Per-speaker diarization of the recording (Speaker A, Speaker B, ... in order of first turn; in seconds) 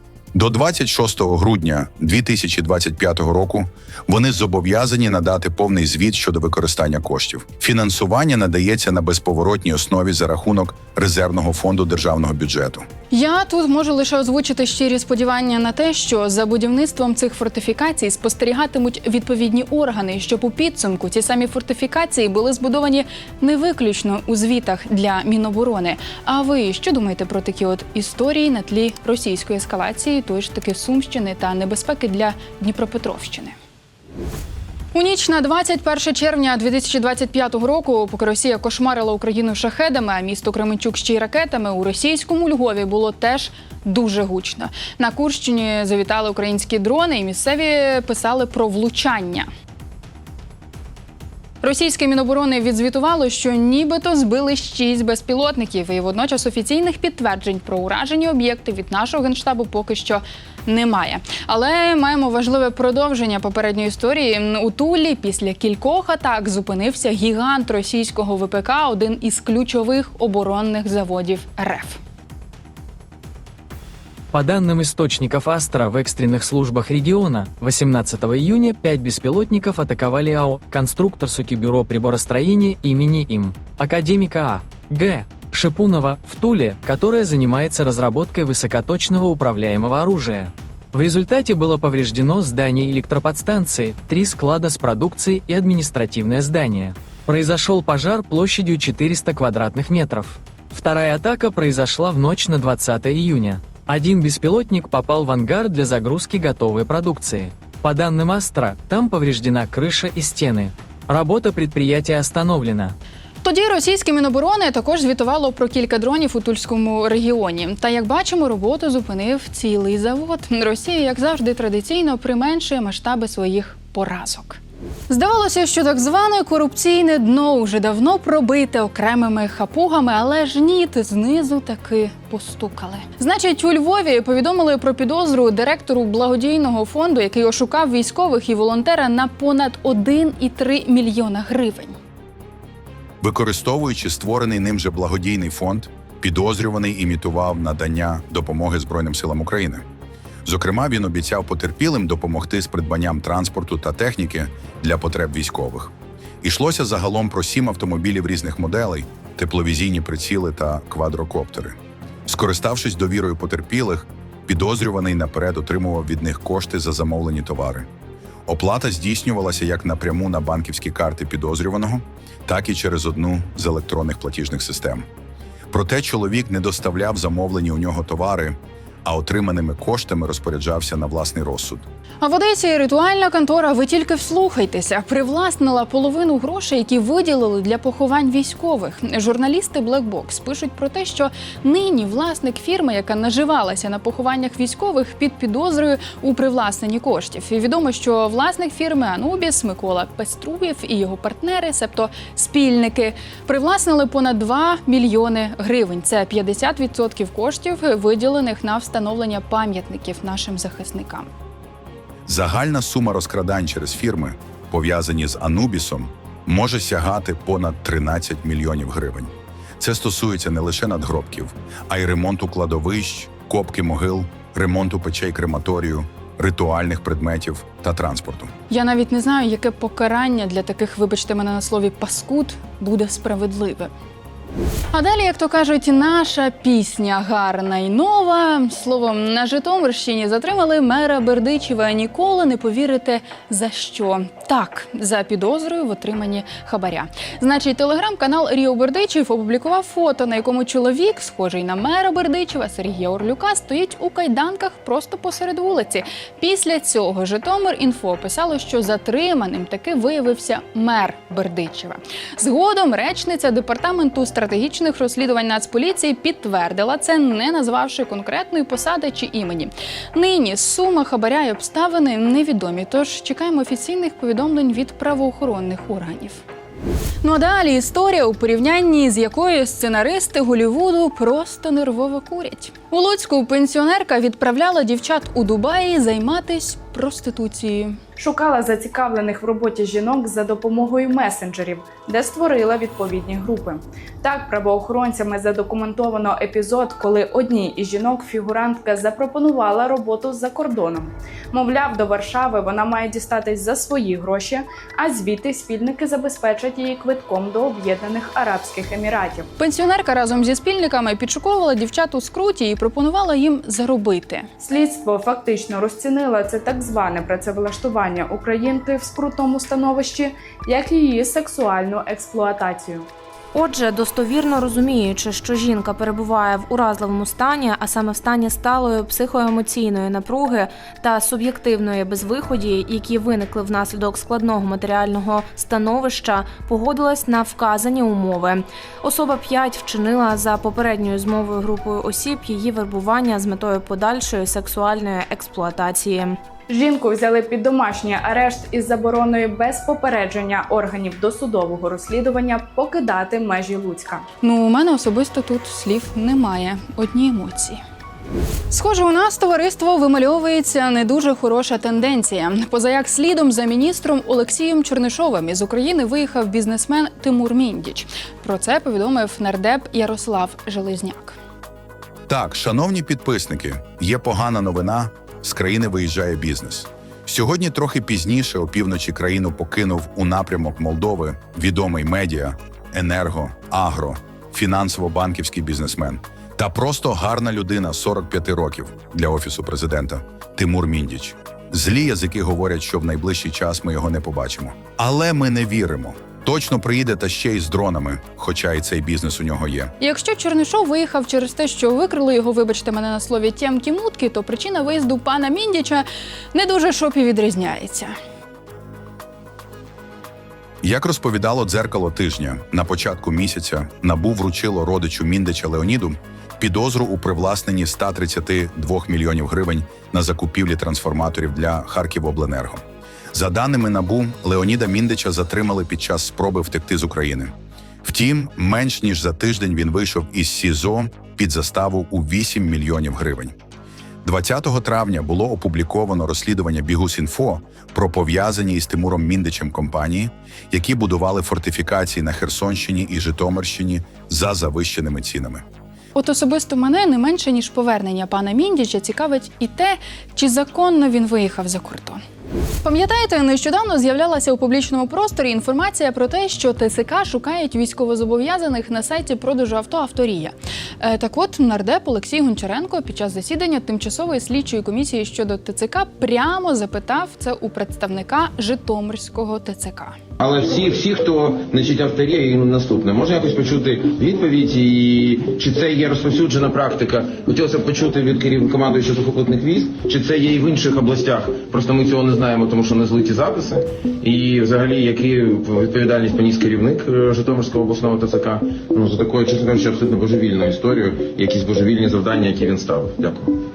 Speaker A: 0.3-12.8, 143.2-149.8, 150.4-167.9, 168.4-175.1, 175.7-181.9, 212.2-228.5, 372.3-399.9, 410.8-433.5, 434.2-445.6
Speaker B: 13.1-33.5, 34.9-49.5, 51.6-72.0, 113.4-141.9, 182.2-211.3, 228.7-233.9, 234.9-276.4, 277.2-288.0, 309.6-314.5, 354.4-357.8, 358.7-371.4, 400.0-408.1, 446.1-452.2, 452.8-470.2
Speaker C: 74.3-112.9
Speaker D: 288.2-309.5, 314.6-323.1, 346.7-354.2
Speaker E: 323.5-346.4
Speaker F: 470.4-493.5